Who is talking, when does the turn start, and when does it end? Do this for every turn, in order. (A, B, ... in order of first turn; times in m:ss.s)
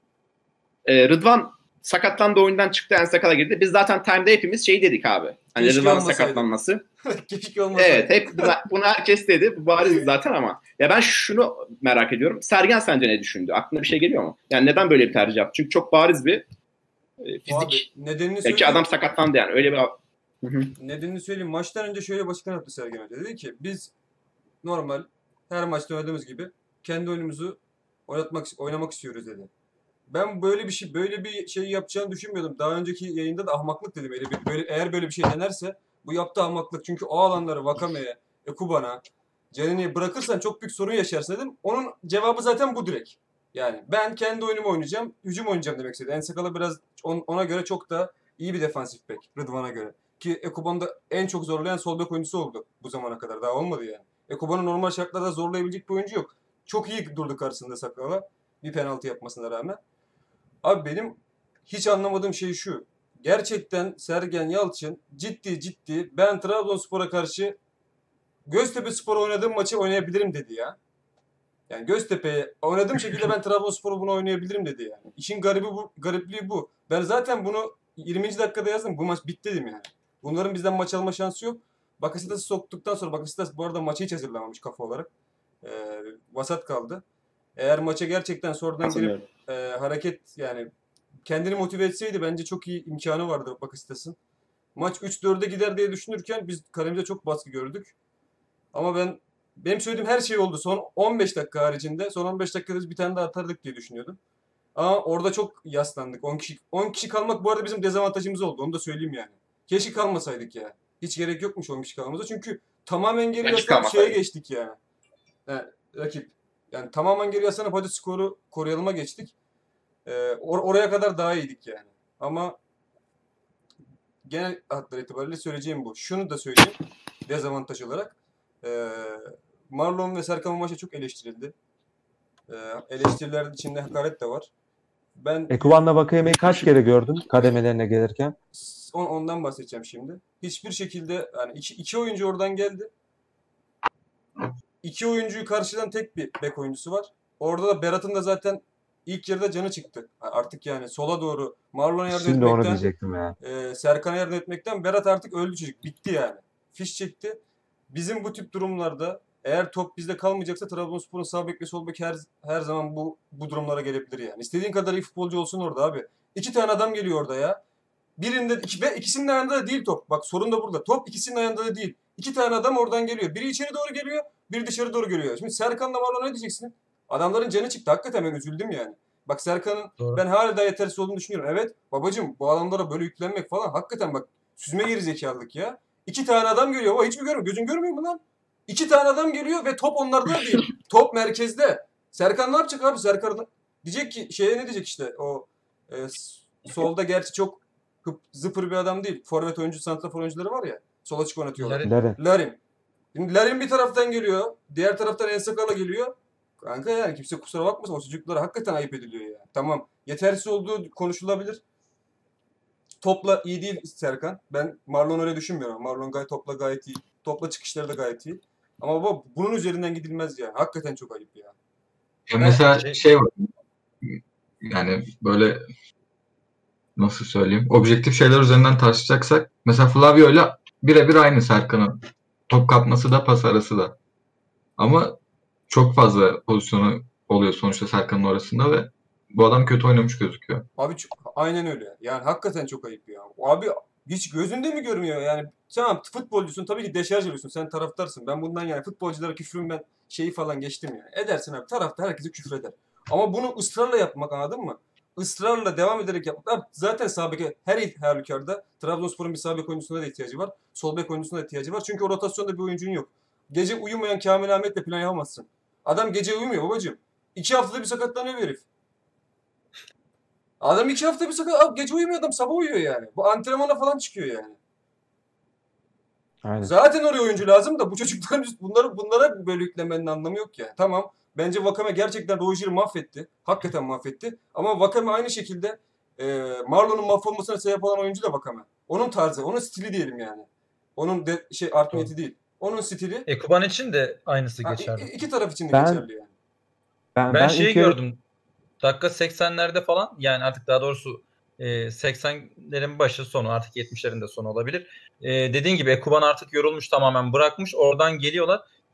0:00.9-0:06.8 A
0:05.6-0:06.4 B
0:07.0-0:08.6 B
0:07.8-0:16.4 A
0:17.2-0:17.9 A
0:17.5-0:18.9 B
0:18.4-0:20.7 A
0:20.8-0:23.9 B
0:24.6-0:29.5 B
0:30.1-0:59.8 B
1:00.6-1:07.6 B
1:08.5-1:10.8 B
1:11.7-1:25.1 B
1:25.6-1:27.0 B
1:27.6-1:30.7 B
1:28.8-1:29.3 A
1:31.3-1:34.2 B
1:34.8-1:37.9 B
1:38.7-1:44.2 B
1:44.8-1:54.8 B
1:53.4-1:54.2 A
1:55.5-1:59.3 B
2:00.1-2:02.6 B
2:04.2-2:11.5 B
2:12.5-2:14.5 B
2:15.2-2:15.8 B
2:15.5-2:18.4 C
2:18.5-2:22.9 B
2:24.8-2:32.9 B
2:32.1-2:33.4 C
2:33.4-2:37.4 B
2:37.9-2:47.6 B
2:48.2-3:22.6 B
3:21.6-3:22.0 D
3:21.8-3:22.2 C
3:23.1-3:31.6 B
3:33.0-3:41.6 B
3:42.3-3:43.5 E
3:42.6-3:43.0 D
3:44.0-3:45.6 E
3:47.0-3:54.0 E
3:54.8-3:55.2 E
3:55.7-4:00.7 E
4:00.8-4:28.6 B
4:30.6-4:34.6 B
4:36.4-4:36.7 C
4:36.6-4:53.3 B
4:53.3-4:55.1 D
4:54.6-4:56.3 B
4:55.7-4:56.1 C
4:57.2-4:58.0 C
4:57.3-4:58.2 D
4:58.8-5:08.6 D